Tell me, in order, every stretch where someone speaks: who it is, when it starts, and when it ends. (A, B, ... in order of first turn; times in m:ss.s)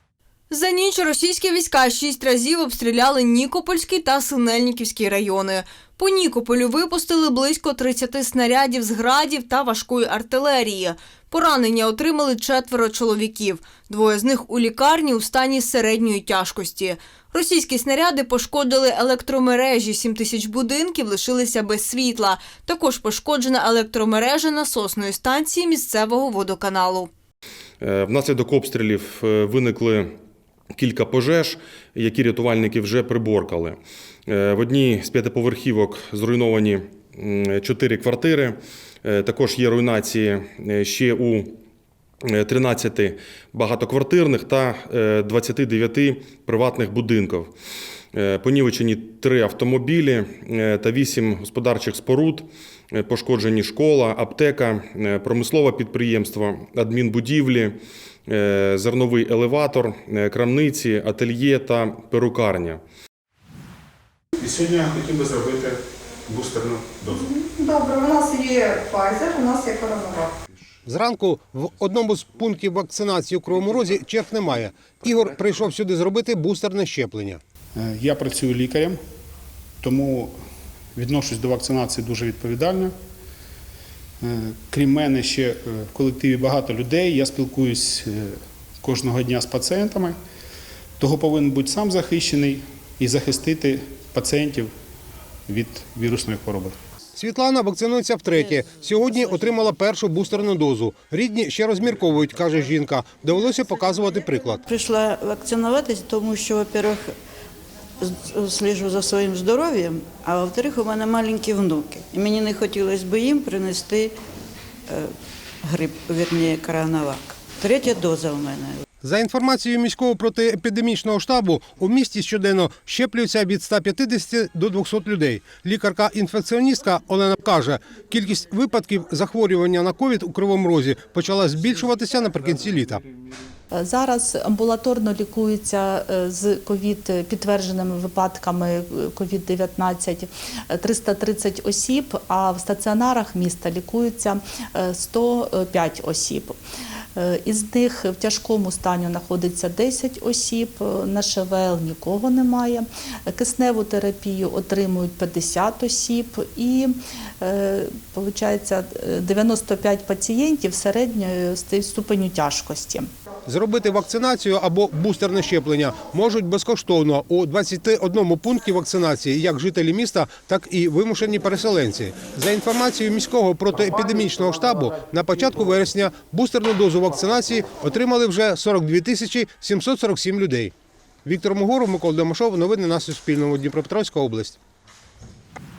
0:00.5-0:27.1 A
0:27.8-0:30.1 B
0:30.8-0:41.5 B
0:42.3-0:47.5 B
0:48.1-1:02.8 B
1:04.6-1:05.7 C
1:06.3-1:06.9 C
1:07.1-1:10.3 D
1:10.8-1:17.4 E
1:17.8-1:19.0 C
1:19.8-1:20.3 C
1:20.9-1:22.9 C
1:24.2-1:28.3 C
1:28.8-1:30.2 C
1:31.0-1:34.7 C
1:35.5-1:36.7 C
1:37.2-1:44.6 E
1:38.3-1:39.7 C
1:44.7-1:47.1 F
1:48.0-1:54.1 F
1:55.7-1:58.7 F
1:59.0-2:13.0 E
2:11.0-2:13.0 C
2:13.7-2:26.5 G
2:27.2-2:43.1 G
2:43.5-3:00.7 E
3:01.2-3:04.6 E